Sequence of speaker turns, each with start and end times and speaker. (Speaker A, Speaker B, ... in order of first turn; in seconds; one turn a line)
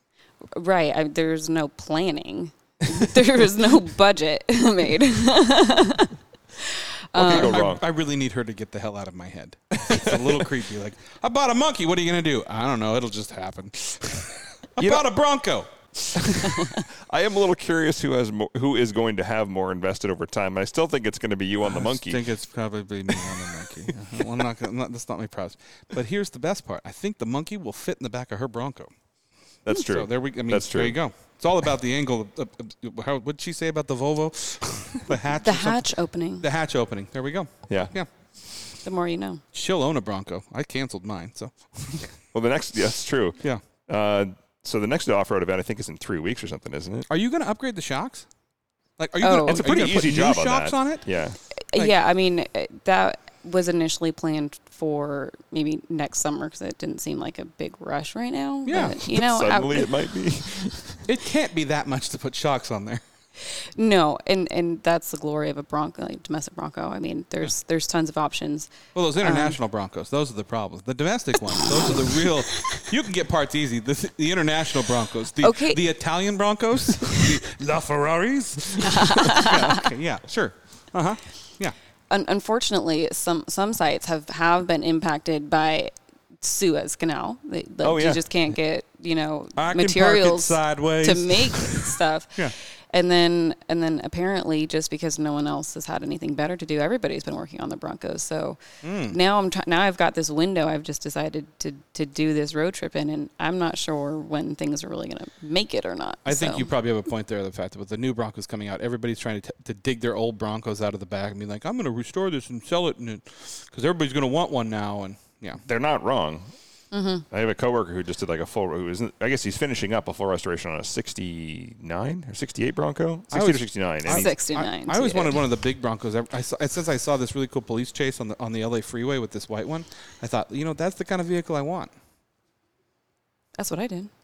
Speaker A: 0.5-7.6
Speaker B: 7.1-7.8
Speaker C: 7.2-16.5
Speaker B: 9.9-10.3
Speaker B: 14.8-15.1
Speaker B: 16.7-22.2
Speaker C: 21.6-28.9
Speaker B: 29.6-31.0
Speaker C: 29.7-38.1
Speaker A: 35.4-36.4
Speaker B: 37.7-37.9
Speaker A: 38.8-39.4
Speaker C: 39.5-42.1
Speaker B: 42.3-47.1
Speaker C: 47.1-48.3
Speaker C: 49.0-51.1
Speaker A: 49.2-49.6
Speaker B: 49.4-51.4
Speaker A: 51.7-60.0
Speaker C: 58.6-59.0
Speaker B: 59.0-61.0
Speaker C: 61.0-63.0
Speaker A: 63.6-69.6
Speaker C: 68.9-81.7
Speaker A: 75.4-75.9
Speaker A: 78.8-79.8
Speaker A: 82.1-106.7
Speaker B: 87.8-88.2
Speaker C: 89.5-92.5
Speaker C: 98.8-99.2
Speaker C: 106.2-115.6
Speaker B: 115.6-116.5
Speaker A: 116.9-117.2
Speaker B: 117.3-124.3
Speaker C: 123.3-131.9
Speaker A: 124.0-125.4
Speaker A: 133.6-134.1